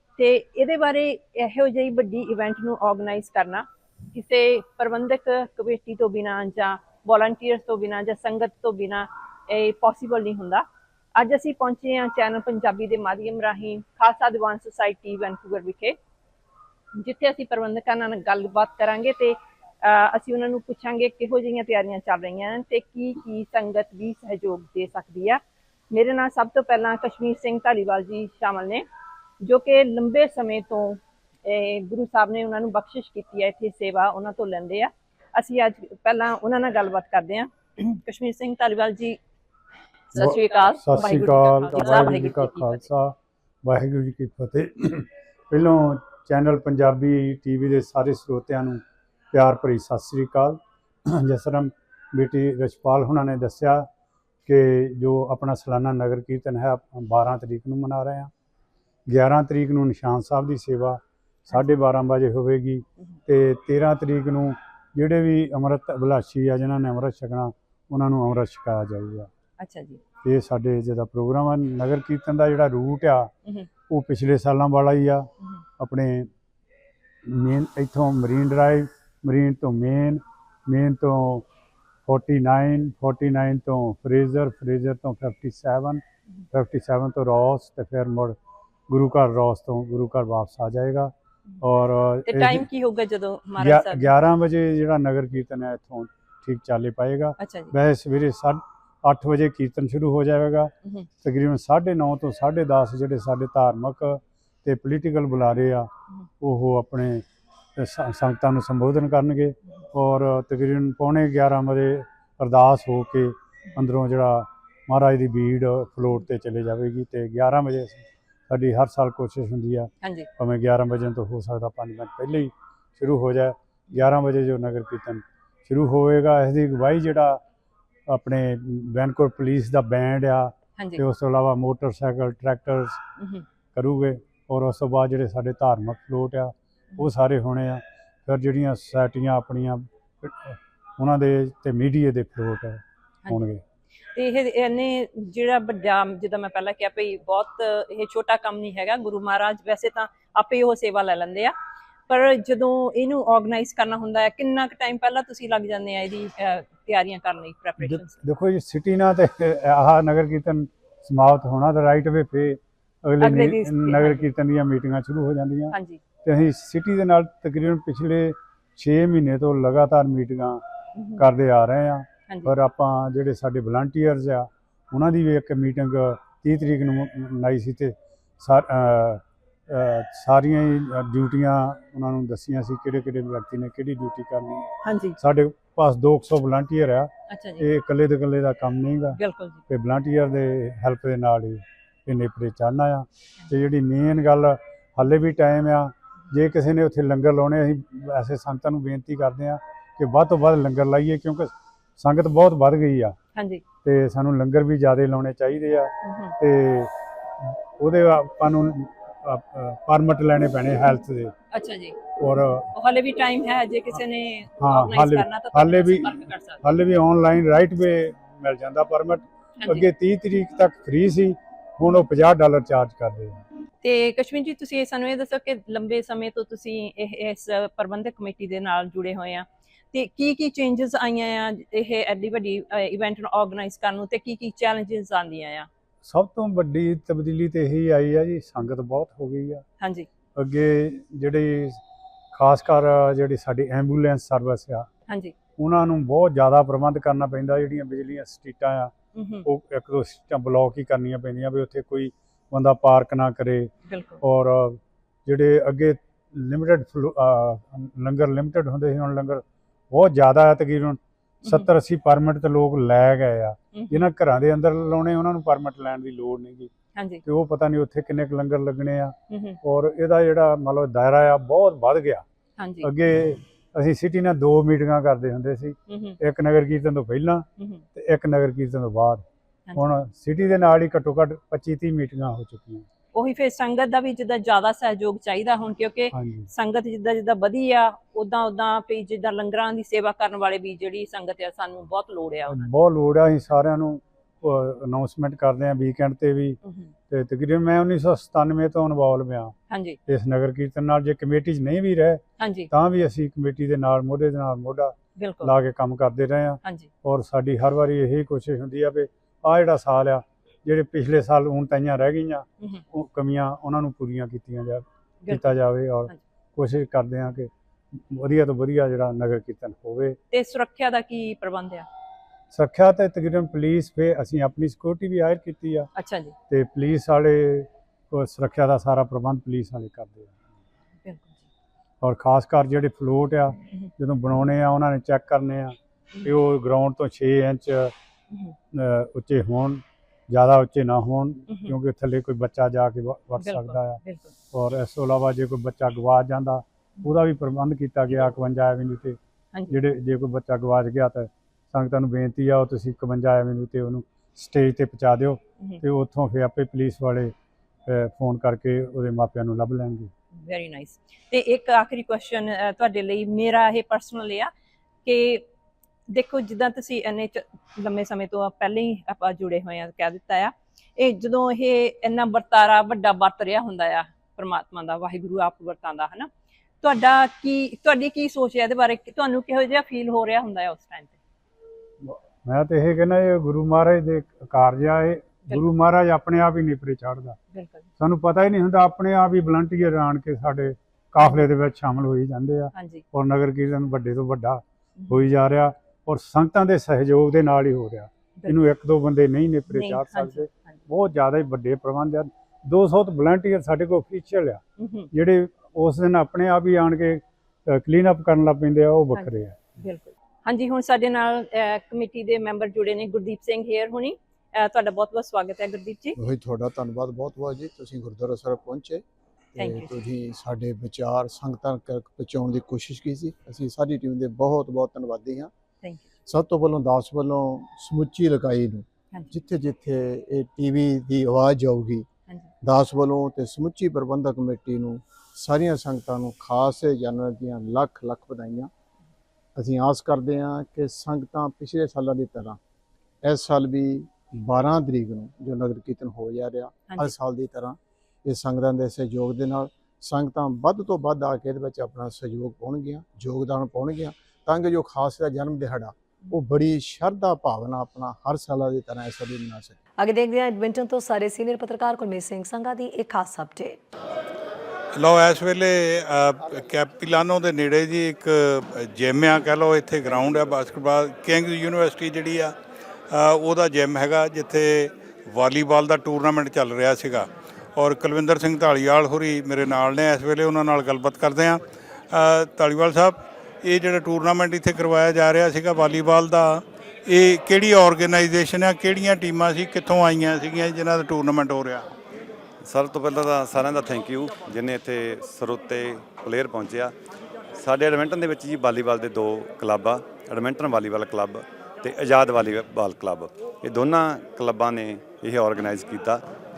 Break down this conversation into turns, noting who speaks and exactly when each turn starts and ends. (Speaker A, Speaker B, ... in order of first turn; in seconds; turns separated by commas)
Speaker A: 0.2-10.6, Speaker A: 11.2-15.9, Speaker A: 17.0-25.4, Speaker A: 25.9-28.8, Speaker A: 29.4-39.2, Speaker A: 40.1-42.8, Speaker B: 40.1-48.8, Speaker B: 49.3-50.6, Speaker B: 51.1-53.9, Speaker B: 54.5-58.3, Speaker B: 59.1-69.3, Speaker A: 61.5-61.7, Speaker A: 69.6-70.0, Speaker B: 70.2-73.3, Speaker B: 73.9-75.3, Speaker B: 75.8-76.3, Speaker B: 77.2-81.4, Speaker B: 82.0-88.4, Speaker B: 88.9-92.6, Speaker A: 92.2-94.1, Speaker B: 93.6-100.7, Speaker A: 97.4-97.7, Speaker B: 101.2-105.9, Speaker B: 106.4-107.2, Speaker B: 107.8-127.4, Speaker A: 120.0-120.3, Speaker B: 128.1-133.0, Speaker A: 133.2-133.4, Speaker B: 133.7-143.6, Speaker A: 144.1-151.5, Speaker A: 152.1-158.2, Speaker B: 157.8-170.6, Speaker A: 163.2-164.3, Speaker A: 165.7-166.0, Speaker A: 171.0-171.2, Speaker B: 171.2-184.7, Speaker A: 172.3-172.5, Speaker A: 184.8-185.2, Speaker B: 185.2-189.2, Speaker A: 187.3-187.7, Speaker A: 189.2-189.6, Speaker B: 189.7-203.2, Speaker A: 203.3-203.6, Speaker B: 203.8-211.3, Speaker A: 206.0-206.3, Speaker A: 211.5-212.0, Speaker B: 212.2-212.7, Speaker A: 212.7-216.6, Speaker B: 214.6-223.4, Speaker A: 219.6-219.8, Speaker A: 223.8-235.7, Speaker B: 236.0-239.6, Speaker A: 239.8-240.1, Speaker B: 240.3-241.8, Speaker B: 242.3-244.9, Speaker A: 245.1-245.3, Speaker B: 245.6-248.9, Speaker A: 249.1-249.5, Speaker B: 249.4-253.7, Speaker A: 253.9-254.2, Speaker B: 254.2-266.7, Speaker A: 263.7-264.1, Speaker A: 266.9-267.2, Speaker B: 267.2-272.2, Speaker A: 269.3-269.6, Speaker A: 272.6-272.9, Speaker B: 272.8-279.2, Speaker A: 275.9-276.2, Speaker B: 279.8-282.9, Speaker A: 283.1-292.7, Speaker B: 286.1-286.5, Speaker B: 292.5-299.5, Speaker A: 296.6-296.9, Speaker A: 299.7-300.0, Speaker B: 300.1-320.2, Speaker A: 302.4-302.7, Speaker A: 305.2-305.5, Speaker A: 306.6-306.9, Speaker A: 315.2-315.6, Speaker A: 320.3-321.9, Speaker B: 322.5-325.9, Speaker A: 325.9-326.3, Speaker B: 326.5-330.3, Speaker A: 331.0-331.4, Speaker B: 332.0-337.9, Speaker B: 338.7-349.2, Speaker A: 341.5-341.7, Speaker A: 343.4-344.3, Speaker B: 349.7-357.3, Speaker B: 357.9-360.1, Speaker A: 360.4-364.5, Speaker A: 365.0-365.4, Speaker A: 366.1-376.3, Speaker A: 376.8-381.1, Speaker B: 382.0-387.4, Speaker A: 387.5-387.9, Speaker B: 388.0-404.6, Speaker A: 392.7-393.0, Speaker A: 395.0-395.2, Speaker A: 399.7-400.8, Speaker A: 404.8-405.1, Speaker B: 405.1-409.6, Speaker A: 409.1-416.2, Speaker C: 416.2-419.0, Speaker C: 419.6-425.5, Speaker A: 419.6-420.0, Speaker C: 426.3-432.1, Speaker C: 432.6-438.7, Speaker C: 439.6-442.6, Speaker C: 443.2-459.8, Speaker A: 446.9-447.1, Speaker D: 460.0-463.8, Speaker E: 464.9-472.6, Speaker E: 473.1-491.9, Speaker F: 492.6-496.9, Speaker F: 497.6-506.2